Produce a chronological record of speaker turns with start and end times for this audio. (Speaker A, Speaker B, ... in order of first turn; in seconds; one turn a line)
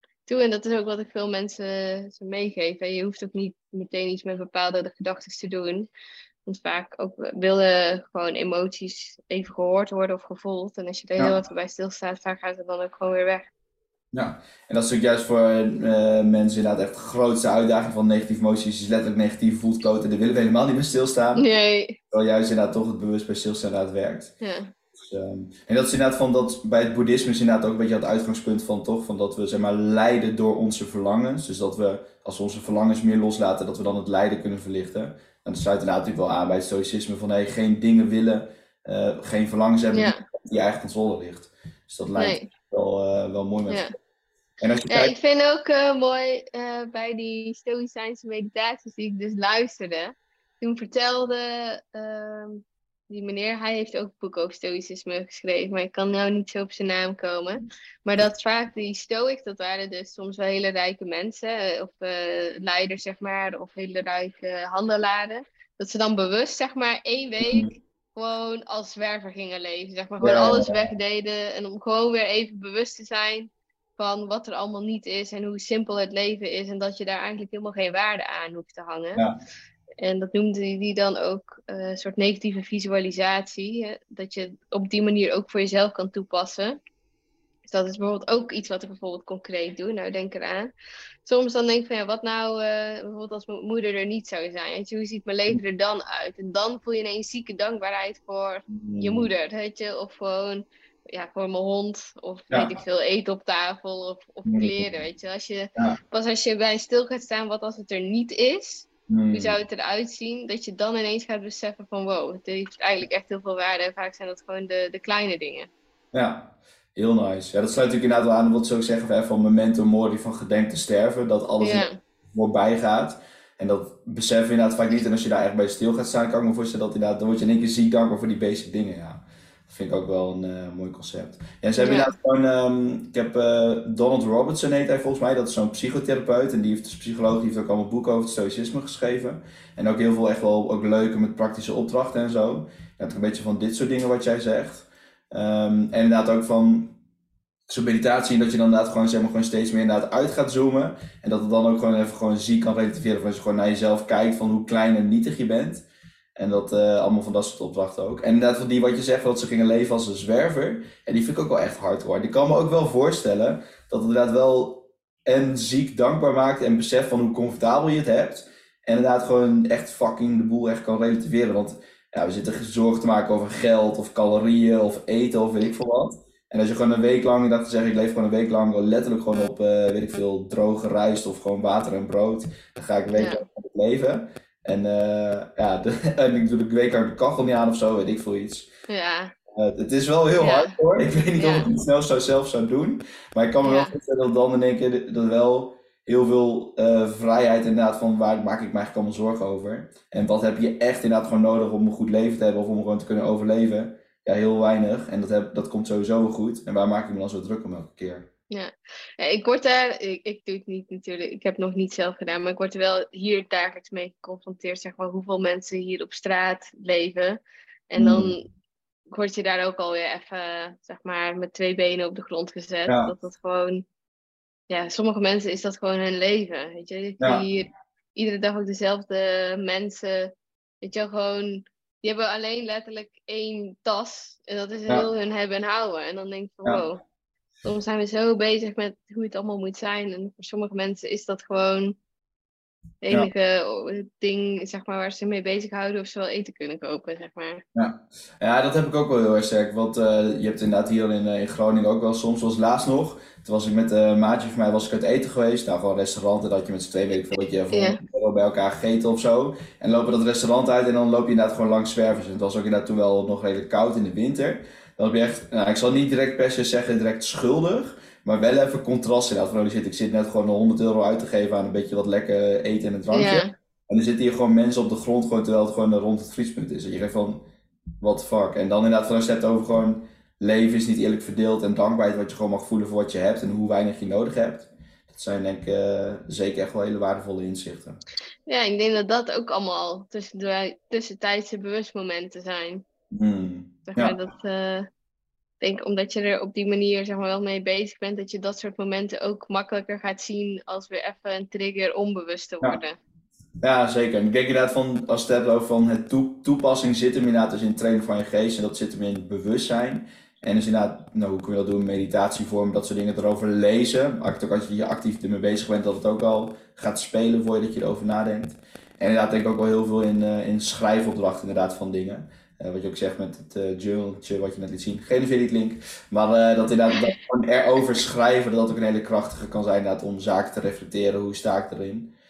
Speaker A: 0.3-5.9
Speaker A: 6.5-13.5
Speaker B: 14.1-21.5
Speaker A: 21.4-22.0
Speaker B: 22.1-24.3
Speaker A: 24.4-24.7
Speaker B: 24.9-43.9
Speaker A: 39.9-40.2
Speaker A: 42.2-42.5
Speaker A: 43.7-43.9
Speaker B: 44.6-45.1
Speaker A: 44.9-79.2
Speaker B: 67.4-67.7
Speaker B: 70.2-71.0
Speaker A: 80.0-86.8
Speaker A: 87.7-90.7
Speaker A: 91.2-115.7
Speaker B: 98.7-99.3
Speaker B: 104.5-104.9
Speaker B: 109.1-109.6
Speaker B: 116.1-146.9
Speaker A: 121.6-122.0
Speaker A: 131.8-132.1
Speaker B: 147.7-155.8
Speaker B: 156.4-188.7
Speaker A: 183.2-183.4
Speaker A: 188.9-189.3
Speaker B: 189.5-208.3
Speaker A: 190.4-190.8
Speaker A: 191.4-191.7
Speaker A: 193.6-193.9
Speaker A: 208.5-218.5
Speaker B: 218.0-218.3
Speaker A: 219.1-223.8
Speaker B: 222.9-223.1
Speaker A: 224.7-237.0
Speaker B: 227.2-227.4
Speaker A: 237.6-242.0
Speaker A: 243.0-247.6
Speaker B: 247.8-277.4
Speaker A: 257.7-258.0
Speaker A: 273.1-273.5
Speaker B: 278.0-288.0
Speaker A: 288.5-292.9
Speaker B: 293.1-294.2
Speaker A: 293.9-294.9
Speaker A: 295.6-303.0
Speaker B: 303.6-332.1